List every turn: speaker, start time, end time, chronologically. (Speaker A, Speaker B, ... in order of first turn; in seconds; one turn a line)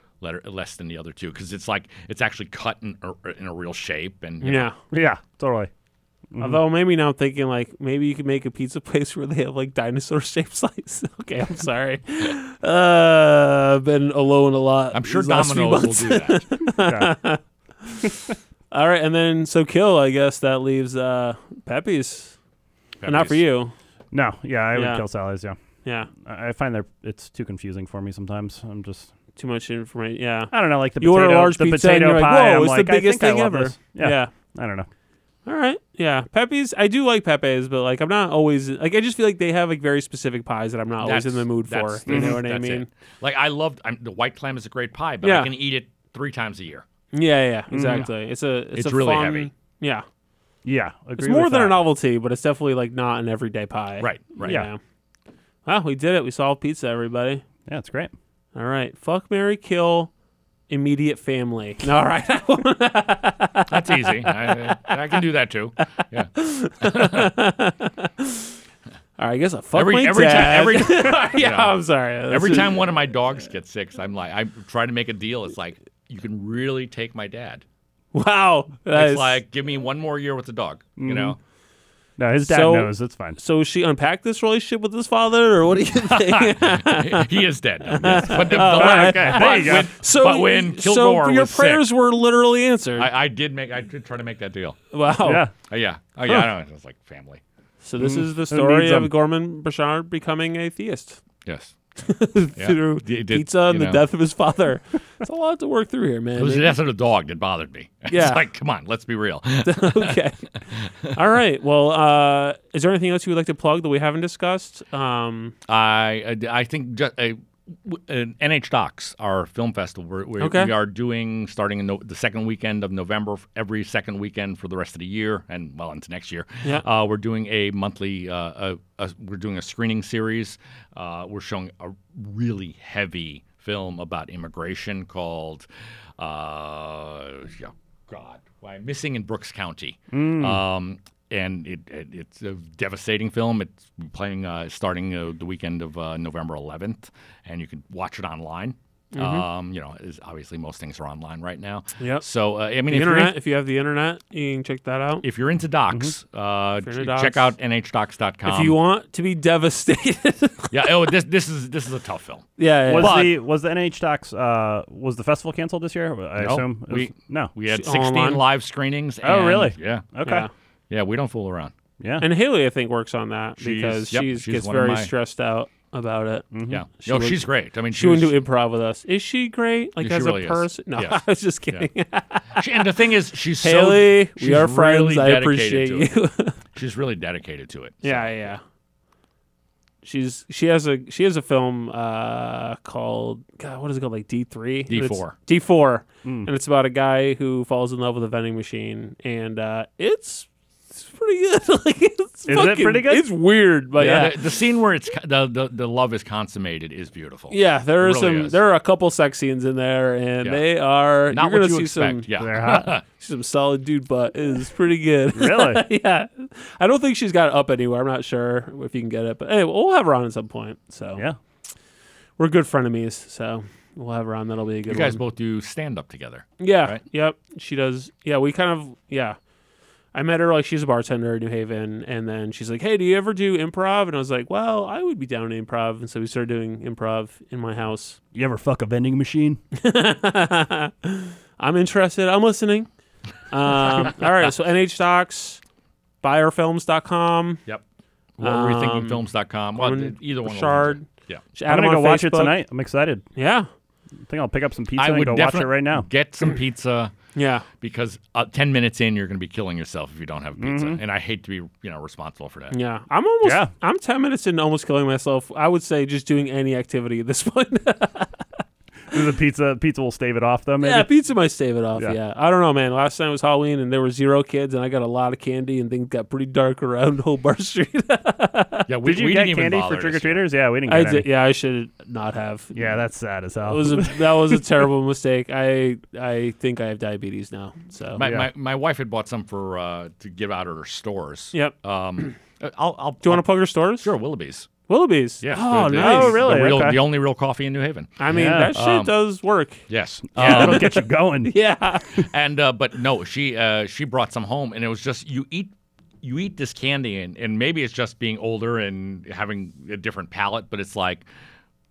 Speaker A: 0.2-4.7
Speaker B: 4.4-4.8
Speaker C: 4.9-5.7
Speaker C: 6.3-6.6
Speaker B: 6.4-22.4
Speaker A: 14.9-16.5
Speaker C: 16.8-17.1
Speaker A: 23.0-23.4
Speaker B: 23.0-23.7
Speaker C: 24.1-25.6
Speaker B: 24.7-25.0
Speaker B: 25.8-26.1
Speaker C: 26.1-29.1
Speaker B: 29.4-34.3
Speaker C: 30.5-34.9
Speaker B: 35.5-42.9
Speaker A: 41.0-46.8
Speaker C: 42.1-42.4
Speaker B: 45.2-45.5
Speaker B: 47.1-50.0
Speaker C: 47.7-48.0
Speaker A: 48.7-49.5
Speaker C: 50.6-51.8
Speaker B: 51.2-54.8
Speaker A: 54.0-54.7
Speaker B: 55.6-57.4
Speaker C: 57.7-58.1
Speaker B: 58.5-60.1
Speaker B: 60.7-65.0
Speaker A: 63.7-67.3
Speaker B: 65.8-68.5
Speaker B: 69.2-72.8
Speaker A: 69.7-77.6
Speaker B: 78.1-79.4
Speaker A: 78.9-81.4
Speaker C: 81.0-81.3
Speaker C: 82.2-83.4
Speaker B: 82.4-93.1
Speaker A: 86.1-91.9
Speaker C: 88.2-89.9
Speaker A: 93.0-94.8
Speaker B: 94.9-95.4
Speaker C: 95.2-95.5
Speaker A: 95.7-97.4
Speaker B: 97.8-101.2
Speaker C: 98.0-99.1
Speaker A: 101.4-104.0
Speaker B: 102.0-106.8
Speaker A: 106.4-111.1
Speaker B: 108.1-108.4
Speaker B: 109.6-110.4
Speaker B: 111.1-115.5
Speaker A: 115.7-135.7
Speaker B: 120.4-120.7
Speaker A: 136.2-153.3
Speaker C: 140.1-140.6
Speaker B: 149.1-149.4
Speaker B: 152.0-152.2
Speaker B: 152.8-155.2
Speaker A: 155.2-158.8
Speaker B: 156.8-157.5
Speaker B: 158.4-161.1
Speaker A: 160.7-163.4
Speaker B: 162.6-163.3
Speaker C: 162.9-167.5
Speaker A: 166.4-170.1
Speaker B: 167.7-168.4
Speaker C: 169.2-170.5
Speaker B: 170.2-170.5
Speaker A: 170.9-171.7
Speaker C: 172.0-172.3
Speaker B: 172.2-182.9
Speaker A: 173.6-175.1
Speaker C: 176.5-176.8
Speaker A: 176.7-178.3
Speaker A: 180.0-181.9
Speaker A: 182.5-186.1
Speaker B: 183.6-186.6
Speaker A: 186.7-188.4
Speaker B: 188.0-188.6
Speaker B: 190.0-204.4
Speaker A: 194.9-195.3
Speaker C: 202.5-203.3
Speaker A: 204.0-208.6
Speaker C: 204.0-204.3
Speaker B: 207.5-212.3
Speaker A: 211.3-213.0
Speaker C: 212.4-212.9
Speaker B: 213.2-221.2
Speaker C: 215.3-215.8
Speaker B: 222.4-225.2
Speaker A: 224.9-227.0
Speaker B: 226.6-229.4
Speaker B: 230.1-238.2
Speaker C: 238.3-239.6
Speaker B: 239.8-242.9
Speaker B: 243.5-245.6
Speaker B: 246.2-247.6
Speaker A: 248.4-251.4
Speaker B: 248.4-252.6
Speaker C: 251.7-253.2
Speaker B: 253.3-253.7
Speaker C: 254.2-256.1
Speaker A: 254.9-257.1
Speaker B: 257.3-257.7
Speaker A: 257.7-262.8
Speaker C: 260.6-261.0
Speaker B: 262.7-268.4
Speaker C: 263.4-263.7
Speaker C: 269.1-271.1
Speaker B: 270.8-278.9
Speaker A: 278.9-280.4
Speaker C: 279.0-281.2
Speaker B: 280.9-283.0
Speaker C: 282.7-284.4
Speaker B: 283.6-288.2
Speaker A: 288.1-294.7
Speaker C: 288.2-288.5
Speaker B: 291.5-292.3
Speaker B: 293.2-294.1
Speaker B: 294.9-296.8
Speaker A: 295.4-299.1
Speaker C: 295.9-297.0
Speaker B: 298.2-299.9
Speaker C: 298.3-298.8
Speaker A: 299.9-300.9
Speaker C: 300.3-301.5
Speaker B: 300.4-302.2
Speaker A: 302.2-311.3